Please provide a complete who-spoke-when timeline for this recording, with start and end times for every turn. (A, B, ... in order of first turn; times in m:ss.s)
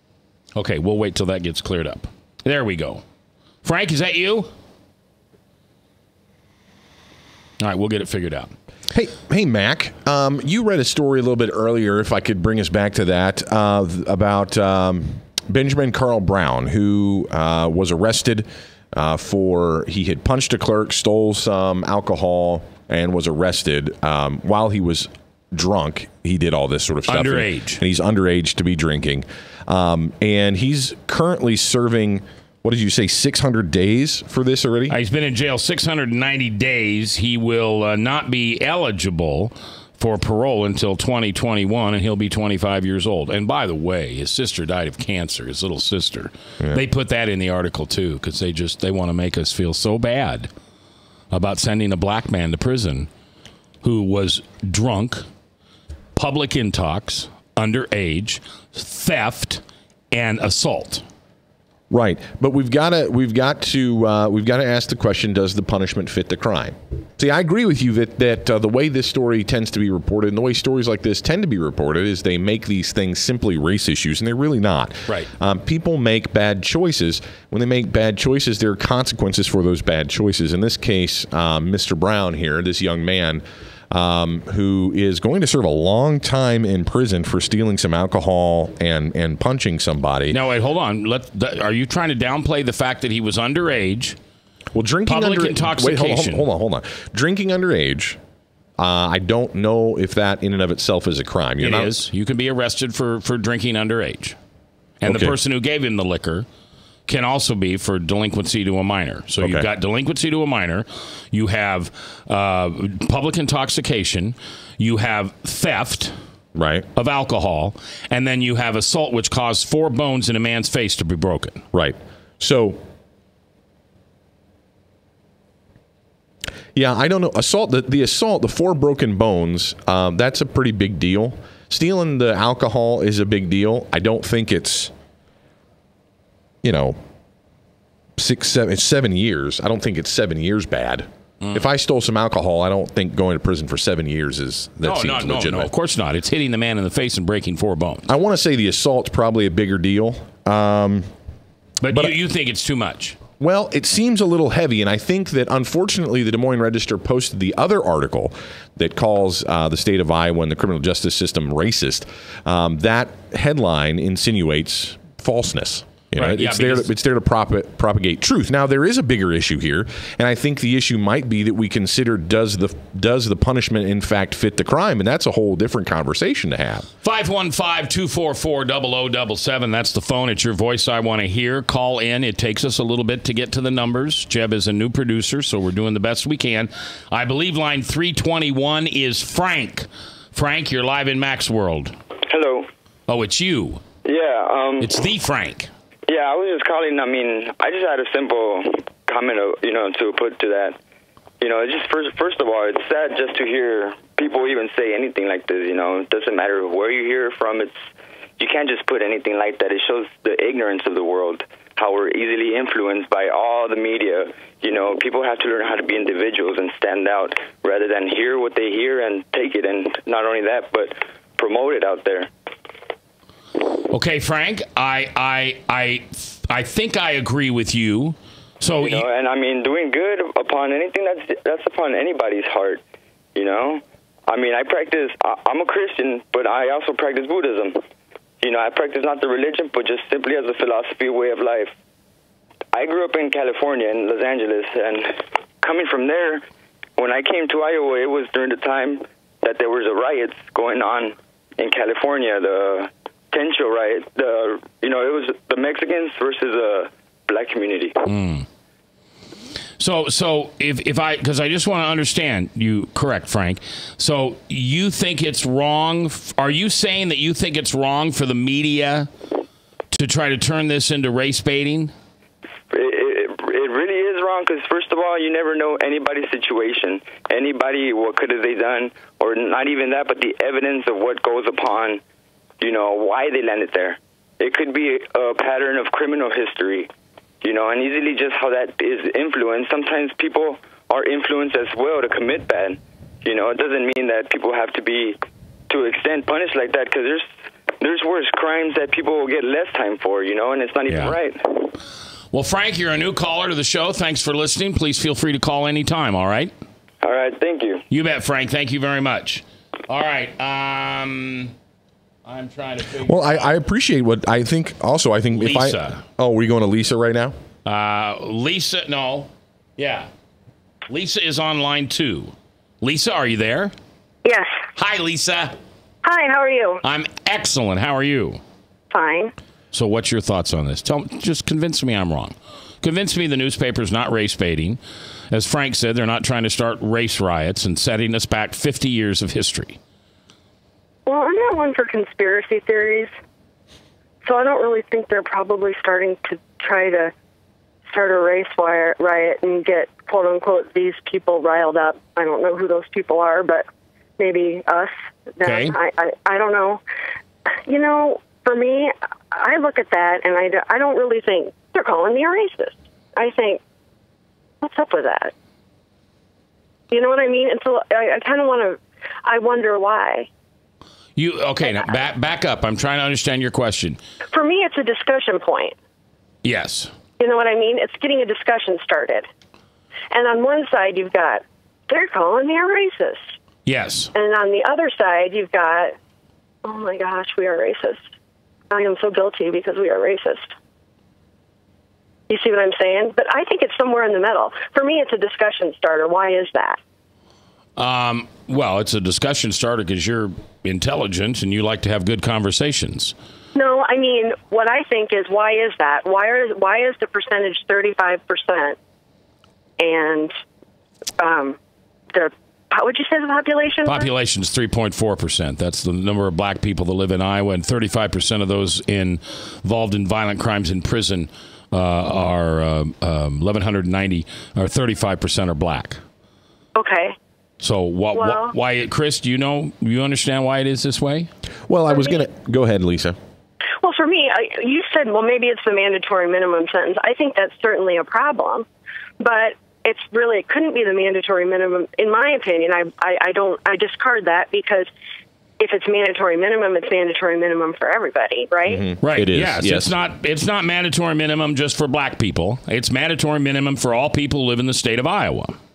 0:00.6-0:03.0 A
0:03.6-0:04.5 A
0:07.6-0:08.5 A
0:08.9-0:35.0 B
0:27.1-0:27.8 A
0:34.9-0:50.5 A
0:51.3-0:53.1 A
0:53.8-0:55.3 A
0:56.1-1:01.0 A
1:01.9-1:30.4 B
1:30.3-1:34.2 A
1:34.7-1:38.2 B
1:35.1-1:36.5 A
1:38.8-1:42.0 B
1:41.6-1:44.4 A
1:45.0-1:46.5 A
1:45.0-1:45.4 B
1:47.1-1:56.1 A
1:49.4-1:49.7 B
1:56.6-1:56.9 B
1:57.0-2:01.6 A
2:01.7-2:02.8 B
2:06.8-2:14.9 B
2:16.6-2:17.0 B
2:18.2-2:25.7 B
2:21.4-2:21.7 A
2:24.8-2:28.1 A
2:28.1-2:31.1 B
2:31.8-2:33.2 A
2:31.9-2:32.2 B
2:33.4-2:56.9 B
2:46.1-2:46.9 A
2:57.0-3:11.9 A
3:12.3-3:12.7 C
3:13.1-3:13.8 A
3:14.0-3:14.9 C
3:14.8-3:15.7 A
3:16.1-3:20.8 C
3:21.4-3:27.8 C
3:28.4-3:42.3 C
3:43.9-3:49.1 A
3:48.8-3:52.8 C
3:53.4-3:57.8 C
3:58.4-4:01.7 C
4:02.7-4:06.4 C
4:07.0-4:18.0 C
4:18.1-4:18.5 A
4:19.8-4:29.1 A
4:29.9-4:31.9 A
4:32.7-4:42.0 C
4:42.6-4:46.9 C
4:47.4-4:55.2 C
4:55.7-4:57.3 C
4:57.8-5:01.7 C
5:00.9-5:01.1 A
5:02.3-5:06.5 A
5:07.0-5:07.8 C
5:07.9-5:11.5 A
5:12.2-5:13.6 A
5:13.0-5:17.4 B
5:15.3-5:16.0 A
5:17.6-5:20.1 A
5:20.9-5:23.7 A
5:24.2-5:24.6 D
5:24.8-5:25.6 A
5:26.0-5:26.8 D
5:26.8-5:28.4 A
5:28.9-5:29.3 D
5:29.7-5:34.8 A
5:35.3-5:39.8 A
5:41.1-5:43.1 D
5:44.2-5:47.1 D
5:47.9-5:53.6 D
5:54.2-5:56.8 D
5:55.4-5:55.8 A
5:57.6-6:03.6 D
6:04.6-6:05.3 D
6:06.9-6:10.3 D
6:11.2-6:14.0 A
6:14.3-6:15.8 D
6:16.4-6:16.9 A
6:17.2-6:19.3 D
6:20.1-6:23.2 D
6:23.6-6:24.1 A
6:24.1-6:26.0 D
6:26.6-6:28.0 D
6:28.7-6:30.5 D
6:32.3-6:36.8 D
6:37.8-6:43.1 A
6:43.6-6:48.8 D
6:49.8-6:50.3 D
6:51.2-6:51.6 D
6:52.1-6:54.1 D
6:53.8-7:06.0 A
7:06.8-7:07.1 D
7:07.6-7:11.3 A
7:08.1-7:08.5 D
7:11.7-7:13.2 B
7:13.8-7:18.6 D
7:19.2-7:24.9 D
7:25.6-7:28.8 D
7:28.7-7:30.0 B
7:29.0-7:35.6 A